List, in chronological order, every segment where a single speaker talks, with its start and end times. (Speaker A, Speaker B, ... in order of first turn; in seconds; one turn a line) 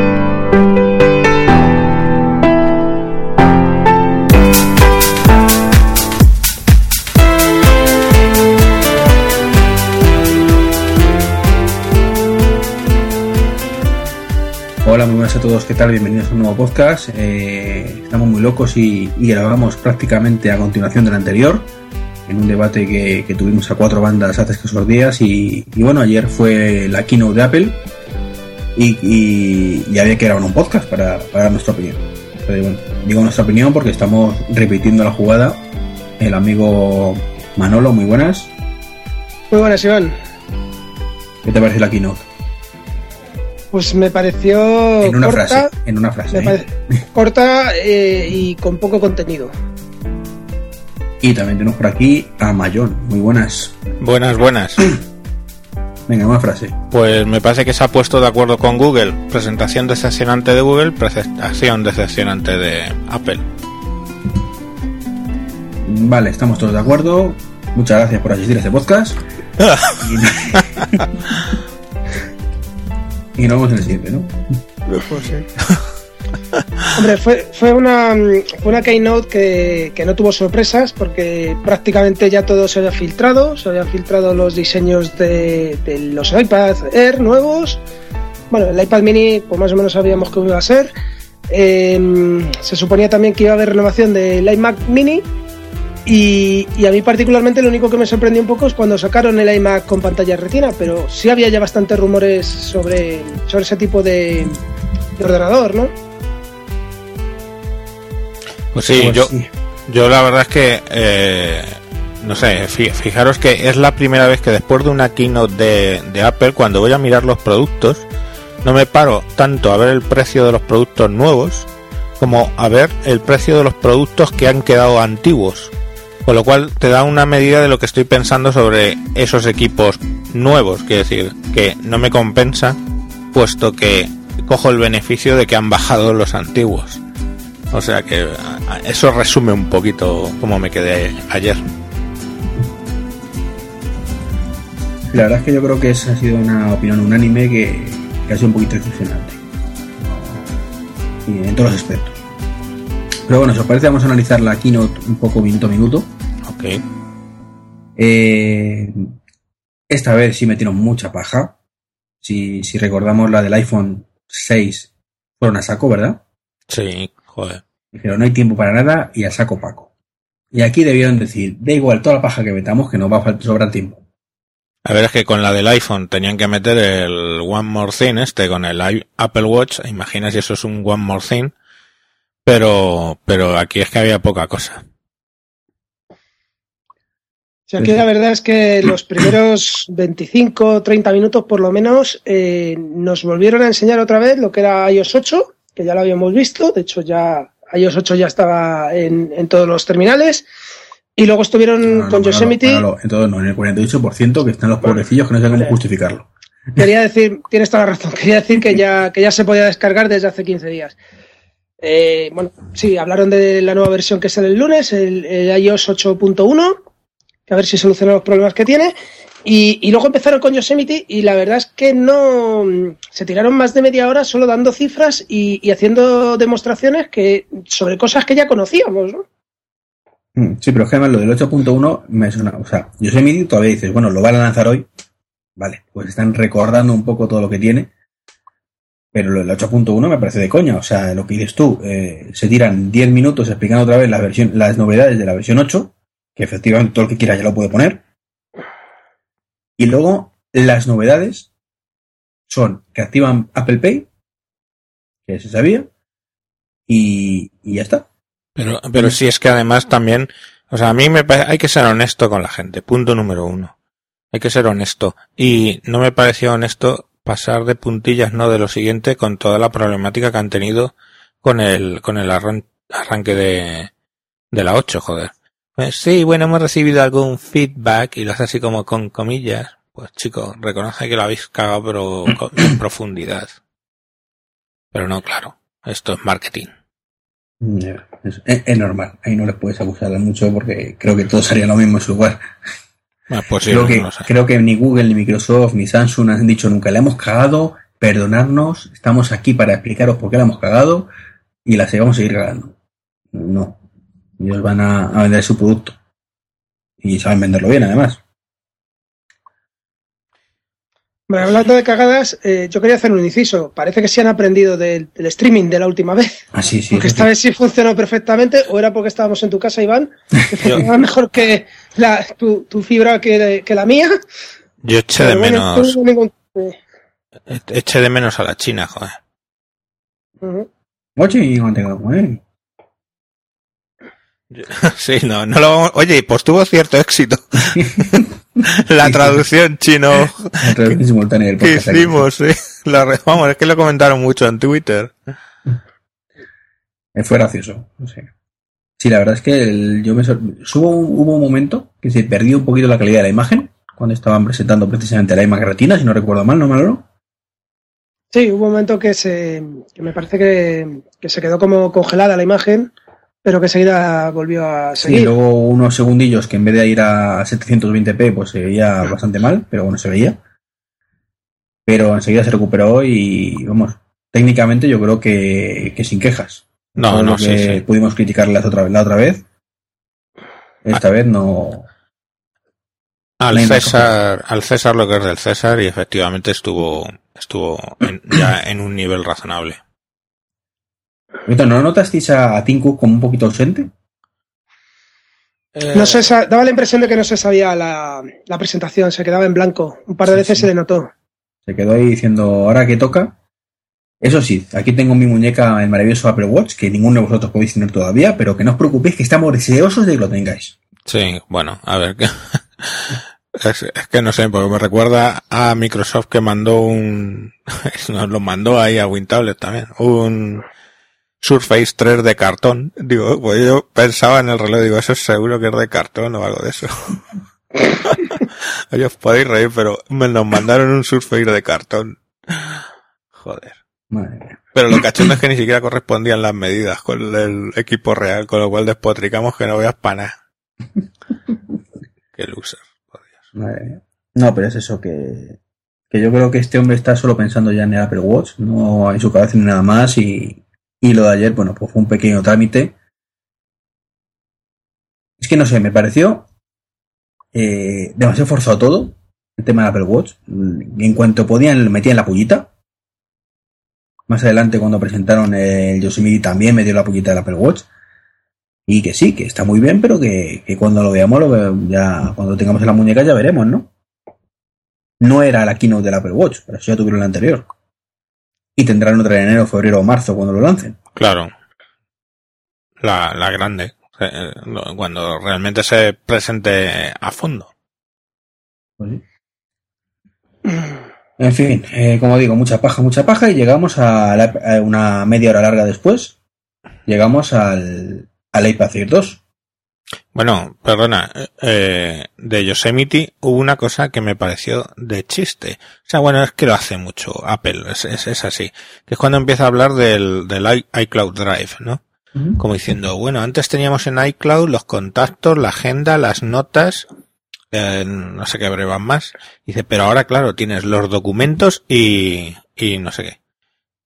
Speaker A: 14.8-21.7
Speaker A: 22.3-27.8
Speaker A: 28.8-35.6
Speaker A: 36.2-38.5
Speaker B: 39.5-40.1
Speaker A: 41.4-42.3
Speaker B: 43.7-45.7
Speaker A: 45.0-46.7
Speaker B: 46.3-49.5
Speaker A: 51.2-53.8
Speaker C: 54.0-54.9
Speaker A: 56.1-56.8
Speaker C: 56.9-63.5
Speaker A: 65.8-69.2
Speaker C: 69.6-71.1
Speaker A: 70.0-71.0
Speaker A: 73.4-74.5
Speaker C: 75.0-75.8
Speaker B: 75.1-75.4
Speaker B: 77.0-87.8
Speaker B: 88.5-90.9
Speaker B: 91.5-95.2
Speaker B: 96.1-104.6
Speaker B: 105.2-105.9
Speaker C: 108.7-109.3
Speaker A: 108.8-109.5
Speaker C: 109.9-118.1
Speaker C: 118.6-121.7
Speaker C: 122.2-125.7
Speaker C: 126.3-132.8
Speaker C: 133.3-137.0
Speaker C: 137.7-141.6
Speaker A: 145.1-149.4
Speaker A: 150.0-150.4
Speaker A: 151.3-152.2
Speaker A: 153.3-156.1
Speaker C: 156.5-156.8
Speaker A: 158.0-159.1
Speaker A: 159.9-161.6
Speaker A: 162.2-166.2
Speaker C: 166.7-167.6
Speaker A: 167.9-169.9
Speaker A: 170.5-174.0
Speaker C: 174.8-181.5
Speaker C: 182.4-184.8
Speaker B: 187.7-200.5
Speaker B: 201.2-202.8
Speaker A: 201.9-206.3
Speaker B: 206.8-211.0
Speaker B: 211.8-216.8
Speaker B: 217.5-218.9
Speaker B: 219.4-229.2
Speaker A: 230.4-234.9
Speaker A: 235.6-237.9
Speaker A: 239.1-248.0
Speaker A: 249.8-251.5
Speaker A: 252.5-254.1
Speaker A: 255.3-255.9
Speaker A: 256.9-258.1
Speaker C: 258.6-263.7
Speaker C: 264.3-273.9
Speaker C: 274.5-283.5
Speaker C: 284.9-286.7
Speaker A: 287.6-292.5
Speaker C: 293.3-294.3
Speaker A: 293.7-301.1
Speaker A: 301.6-302.8
Speaker A: 303.3-303.8
Speaker A: 304.4-306.0
Speaker A: 307.0-308.2
Speaker B: 311.3-324.2
Speaker A: 316.5-317.3
Speaker C: 324.8-325.9
Speaker B: 325.2-326.8
Speaker C: 327.5-329.2
Speaker B: 330.4-330.7
Speaker A: 331.2-332.4
Speaker C: 334.5-341.0
Speaker A: 339.0-339.4
Speaker A: 340.6-342.2
Speaker C: 341.6-345.1
Speaker A: 347.1-348.3
Speaker A: 349.0-357.1
Speaker B: 358.3-362.9
Speaker B: 363.4-365.3
Speaker A: 365.0-370.4
Speaker A: 371.9-379.4
Speaker C: 377.0-377.8
Speaker A: 380.8-381.9
Speaker C: 383.4-389.8
Speaker A: 383.5-384.1
Speaker A: 391.5-393.9
Speaker C: 395.8-396.3
Speaker B: 395.9-401.1
Speaker A: 401.7-403.4
Speaker A: 404.2-410.8
Speaker C: 411.1-420.7
Speaker C: 421.4-427.2
Speaker C: 427.8-433.8
Speaker A: 434.1-434.6
Speaker C: 434.7-440.4
Speaker C: 442.4-443.4
Speaker A: 443.6-445.6
Speaker A: 446.1-452.9
Speaker A: 455.4-456.5
Speaker A: 457.5-462.7
Speaker A: 464.3-467.9
Speaker A: 468.9-473.9
Speaker A: 475.2-477.7
Speaker A: 478.8-481.0
Speaker C: 481.2-481.5
Speaker C: 483.0-487.7
Speaker A: 491.4-496.4
Speaker A: 497.1-499.4
Speaker C: 500.3-512.0
Speaker C: 512.6-517.1
Speaker C: 517.7-523.4